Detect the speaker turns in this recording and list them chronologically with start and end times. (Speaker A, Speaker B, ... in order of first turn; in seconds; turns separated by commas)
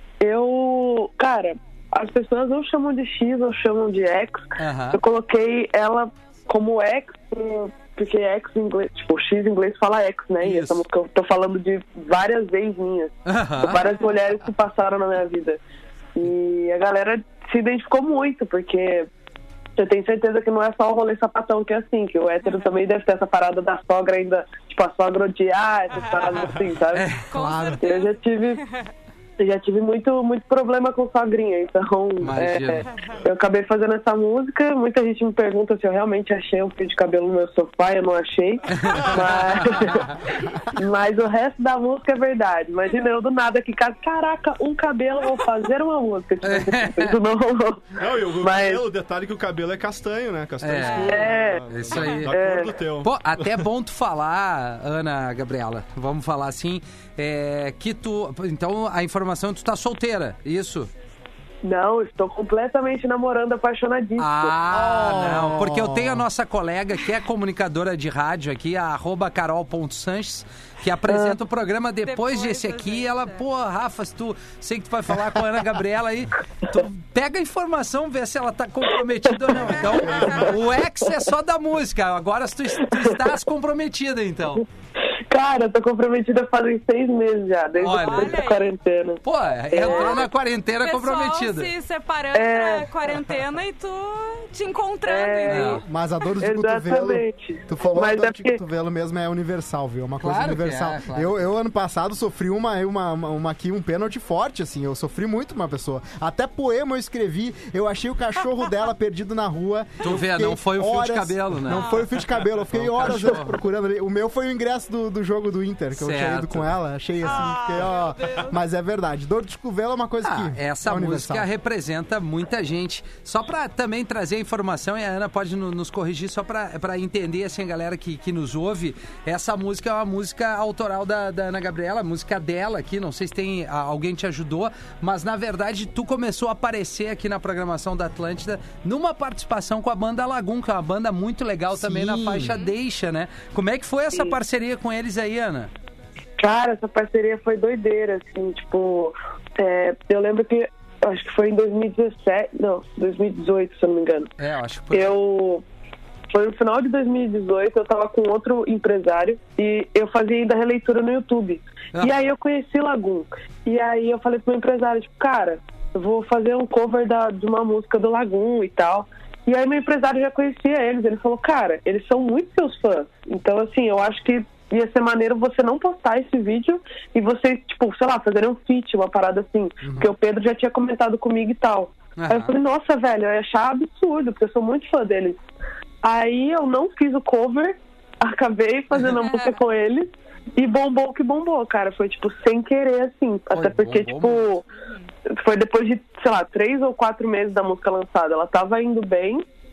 Speaker A: 0.2-15.6, Speaker B: 4.6-5.0, Speaker B: 10.4-10.8, Speaker B: 13.2-13.8, Speaker A: 16.1-19.1, Speaker A: 19.8-27.1, Speaker C: 26.0-26.4, Speaker B: 26.9-27.3, Speaker C: 27.3-28.9, Speaker D: 27.4-27.8, Speaker A: 27.8-28.6, Speaker A: 29.4-48.8, Speaker B: 32.2-32.9, Speaker B: 38.7-40.1, Speaker B: 46.4-47.2, Speaker E: 48.0-53.6, Speaker B: 50.6-52.4, Speaker C: 50.8-51.3, Speaker A: 51.1-51.6, Speaker A: 52.3-52.8, Speaker B: 53.0-60.9, Speaker A: 61.6-65.3, Speaker B: 64.2-84.6, Speaker D: 64.7-66.2, Speaker C: 72.0-73.4, Speaker C: 79.7-80.5, Speaker A: 80.1-80.5, Speaker A: 82.8-83.2, Speaker A: 85.3-90.2, Speaker B: 87.8-88.3, Speaker C: 87.8-88.7, Speaker B: 89.2-91.7, Speaker C: 89.8-90.3, Speaker C: 90.8-96.2, Speaker A: 92.3-92.9, Speaker A: 95.0-95.8, Speaker B: 95.5-95.8, Speaker D: 95.8-121.5, Speaker A: 96.4-98.6, Speaker B: 100.2-101.5, Speaker B: 110.0-111.9, Speaker C: 111.7-112.2, Speaker B: 112.7-113.5, Speaker B: 116.0-116.7, Speaker C: 117.2-118.5, Speaker B: 120.2-145.7, Speaker D: 141.7-142.6, Speaker A: 146.4-154.3, Speaker B: 154.4-155.1, Speaker A: 154.9-155.6, Speaker A: 156.3-185.4, Speaker D: 179.8-180.1, Speaker B: 182.2-182.5, Speaker A: 186.0-194.6, Speaker C: 189.1-189.5, Speaker B: 193.5-194.4, Speaker A: 195.3-199.4